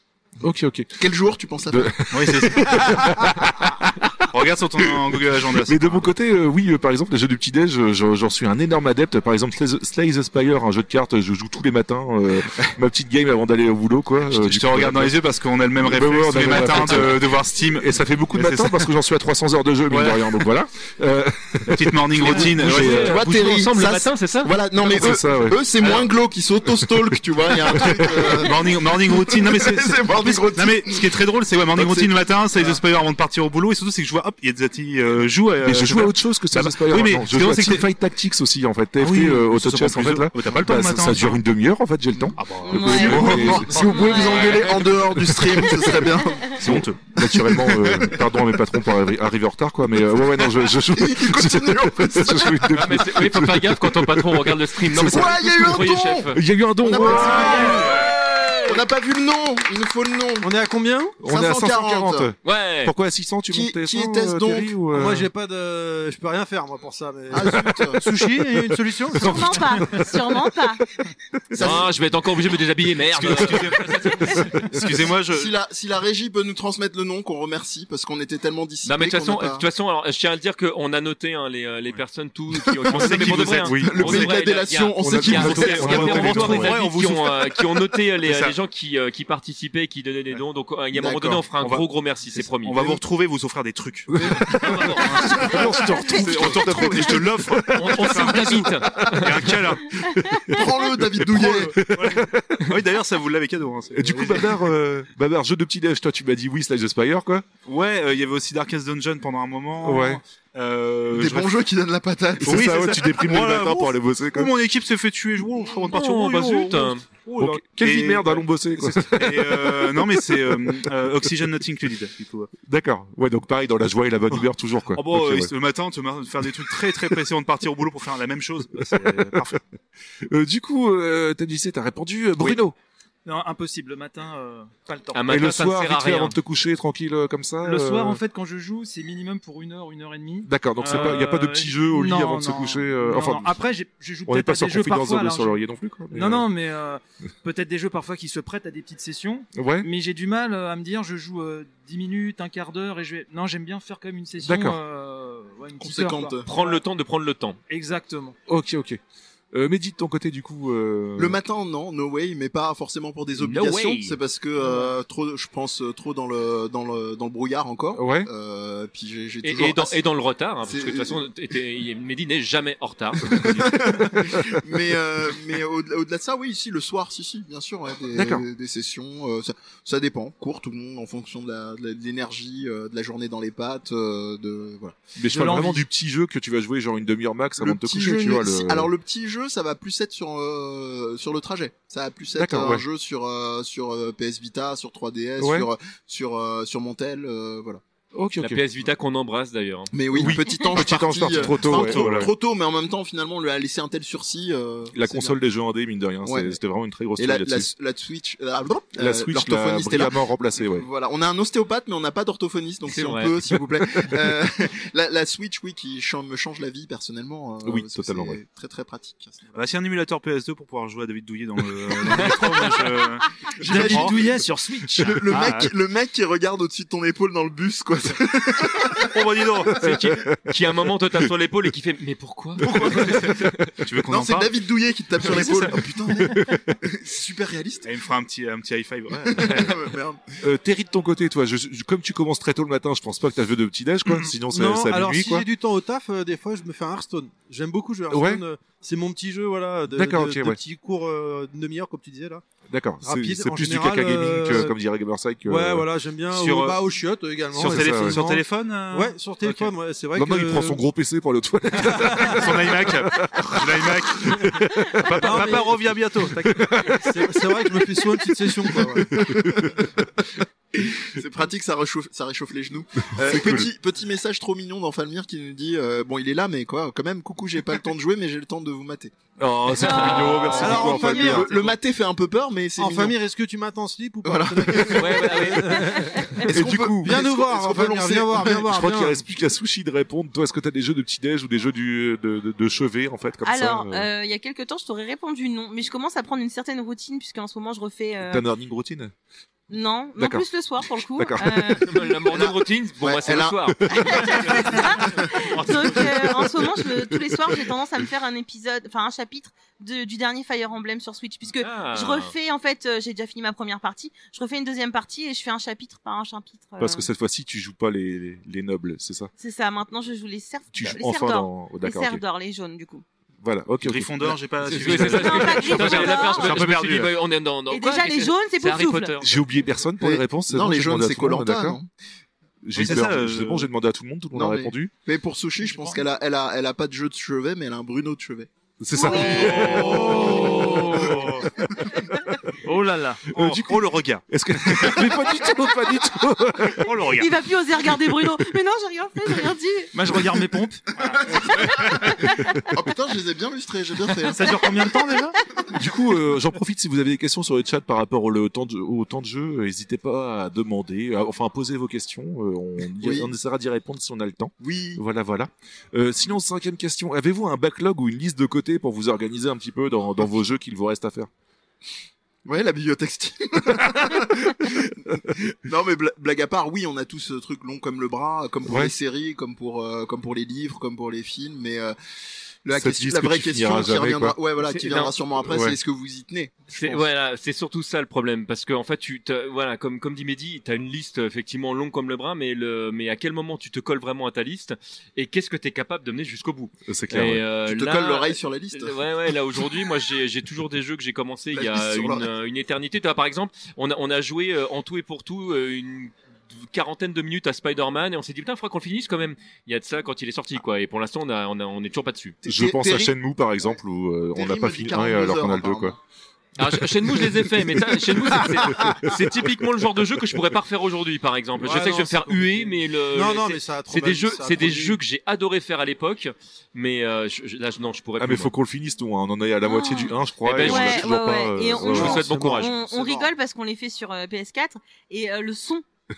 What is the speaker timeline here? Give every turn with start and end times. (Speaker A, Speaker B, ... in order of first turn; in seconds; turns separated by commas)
Speaker A: 0.4-1.0, Speaker B: 1.0-1.9, Speaker A: 1.7-4.1, Speaker C: 2.1-3.3, Speaker C: 4.3-6.1, Speaker A: 4.8-15.2, Speaker C: 14.3-18.9, Speaker A: 15.8-23.1, Speaker C: 19.9-20.3, Speaker C: 21.7-23.2, Speaker D: 22.3-24.6, Speaker B: 22.9-31.1, Speaker A: 24.8-25.6, Speaker A: 27.8-28.3, Speaker C: 28.3-37.9, Speaker B: 31.8-32.8, Speaker A: 35.6-46.0, Speaker C: 39.0-41.4, Speaker C: 42.4-43.9, Speaker E: 42.6-44.6, Speaker B: 43.0-46.6, Speaker C: 46.5-47.0, Speaker A: 46.6-57.8, Speaker B: 47.2-48.2, Speaker B: 50.5-53.1, Speaker D: 52.8-56.4, Speaker B: 55.0-60.5, Speaker F: 57.2-57.9, Speaker D: 57.4-58.0, Speaker G: 60.4-61.2, Speaker A: 61.2-65.3, Speaker B: 61.2-62.3, Speaker D: 62.4-62.9, Speaker B: 63.5-64.8, Speaker G: 64.9-69.6, Speaker B: 67.3-68.2, Speaker E: 69.2-70.8, Speaker B: 71.5-71.9, Speaker D: 71.5-74.7, Speaker C: 73.1-75.5, Speaker B: 75.3-79.7, Speaker D: 78.8-93.0, Speaker C: 82.9-83.9, Speaker B: 82.9-83.2, Speaker A: 83.6-84.3, Speaker B: 83.8-86.7, Speaker A: 85.0-86.8, Speaker C: 85.6-87.6, Speaker C: 88.2-88.5, Speaker B: 90.9-91.4, Speaker C: 91.6-91.9, Speaker C: 92.5-100.0, Speaker A: 94.1-94.7, Speaker F: 94.5-95.3, Speaker D: 94.6-95.1, Speaker A: 95.2-98.4, Speaker D: 97.7-99.5, Speaker B: 98.8-99.1, Speaker A: 100.0-102.8, Speaker B: 100.5-101.8, Speaker C: 101.3-104.6, Speaker A: 103.9-107.5, Speaker C: 107.7-111.5, Speaker A: 109.8-110.2, Speaker B: 111.1-112.9, Speaker A: 112.4-114.5, Speaker C: 112.4-122.5, Speaker D: 115.8-117.0, Speaker A: 117.4-120.5, Speaker A: 122.7-125.5, Speaker C: 124.9-129.6, Speaker A: 126.6-127.1, Speaker A: 128.9-129.6, Speaker A: 130.3-132.8, Speaker F: 133.3-135.3, Speaker D: 135.1-136.4, Speaker A: 135.3-138.2, Speaker F: 137.6-145.6, Speaker A: 140.4-143.6, Speaker A: 144.3-146.5, Speaker F: 146.1-156.8, Speaker A: 149.5-149.9, Speaker A: 154.4-154.8, Speaker B: 155.8-156.5, Speaker D: 156.5-157.6, Speaker F: 157.7-158.4, Speaker A: 158.5-159.0, Speaker A: 159.5-161.4, Speaker B: 161.2-170.0, Speaker D: 163.4-164.2, Speaker F: 164.6-164.9, Speaker A: 167.9-168.3, Speaker D: 169.4-173.8, Speaker B: 170.7-171.2, Speaker B: 173.2-185.0, Speaker A: 178.1-178.4, Speaker A: 185.2-188.9, Speaker F: 185.2-185.9, Speaker B: 187.6-197.8, Speaker A: 192.3-192.8, Speaker A: 195.4-195.7, Speaker A: 198.1-198.7, Speaker D: 198.4-199.9, Speaker B: 199.9-205.4, Speaker A: 200.1-202.3, Speaker C: 201.4-202.3, Speaker A: 204.9-207.7, Speaker B: 206.2-206.6, Speaker B: 207.2-219.5, Speaker A: 208.9-210.9, Speaker D: 212.9-213.4, Speaker A: 213.8-214.2, Speaker A: 217.6-218.4, Speaker C: 219.5-224.2, Speaker D: 222.3-222.8, Speaker B: 223.6-229.9, Speaker F: 223.6-225.2, Speaker C: 225.1-225.7, Speaker C: 229.0-230.2, Speaker D: 229.8-233.6, Speaker A: 229.9-230.4, Speaker B: 232.6-233.3, Speaker A: 232.6-233.5, Speaker C: 233.8-234.6, Speaker B: 234.1-237.9, Speaker C: 235.3-235.7, Speaker A: 236.2-236.8, Speaker C: 237.8-239.9, Speaker B: 239.2-240.2, Speaker A: 240.4-245.5, Speaker G: 244.5-252.4, Speaker A: 248.1-248.4, Speaker A: 249.9-250.6, Speaker A: 252.7-255.9, Speaker G: 253.0-254.8, Speaker G: 255.4-260.8, Speaker C: 256.3-256.8, Speaker C: 257.5-259.7, Speaker A: 257.6-258.2, Speaker A: 260.1-265.4, Speaker C: 262.2-266.9, Speaker G: 265.1-265.7, Speaker A: 266.4-267.7, Speaker G: 267.0-269.3, Speaker A: 268.7-269.9, Speaker B: 269.5-269.8, Speaker B: 270.8-279.1, Speaker A: 273.1-273.7, Speaker A: 279.4-281.7, Speaker E: 279.7-281.4, Speaker D: 280.1-280.4, Speaker B: 280.2-283.2, Speaker G: 280.6-281.5, Speaker G: 282.8-286.4, Speaker B: 284.2-288.7, Speaker D: 284.9-285.9, Speaker E: 286.0-286.4, Speaker A: 286.5-287.2, Speaker G: 287.0-289.2, Speaker A: 288.6-294.1, Speaker E: 293.4-298.5, Speaker A: 298.2-299.1, Speaker E: 299.7-301.9, Speaker A: 300.2-301.8, Speaker D: 301.8-306.0, Speaker B: 302.3-305.2, Speaker E: 303.9-317.1, Speaker D: 311.6-312.3, Speaker A: 316.8-319.3, Speaker E: 319.4-323.0, Speaker A: 320.7-322.2, Speaker A: 323.4-324.4, Speaker C: 323.8-327.2, Speaker D: 324.6-329.3, Speaker E: 325.1-326.6, Speaker E: 327.7-329.2, Speaker A: 329.2-331.8, Speaker B: 330.0-331.9, Speaker A: 332.6-334.9, Speaker C: 332.8-333.7, Speaker B: 334.3-338.5, Speaker F: 335.7-336.0, Speaker A: 338.8-341.0, Speaker E: 338.9-339.9, Speaker F: 339.2-341.2, Speaker C: 339.4-341.5, Speaker B: 340.1-340.6, Speaker F: 342.6-343.2, Speaker C: 343.3-345.1, Speaker A: 343.3-347.1, Speaker C: 346.8-347.3, Speaker E: 347.1-349.9, Speaker F: 349.9-351.2, Speaker B: 351.3-351.9, Speaker C: 351.5-352.0, Speaker B: 352.7-355.0, Speaker F: 354.3-355.4, Speaker A: 355.7-371.3, Speaker B: 363.0-363.3, Speaker B: 364.6-365.0, Speaker B: 372.5-382.0, Speaker A: 378.7-378.9, Speaker B: 382.6-387.1, Speaker A: 382.7-384.4, Speaker D: 384.6-385.2, Speaker A: 385.5-385.8, Speaker D: 386.7-412.4, Speaker A: 396.9-397.4, Speaker B: 397.6-399.0, Speaker B: 401.5-402.3, Speaker B: 412.4-413.1, Speaker A: 412.4-416.0, Speaker B: 414.3-416.0, Speaker D: 416.6-428.5, Speaker A: 418.7-419.1, Speaker G: 421.6-425.0, Speaker A: 428.2-432.6, Speaker E: 429.6-435.8, Speaker D: 430.4-431.1, Speaker D: 431.8-432.9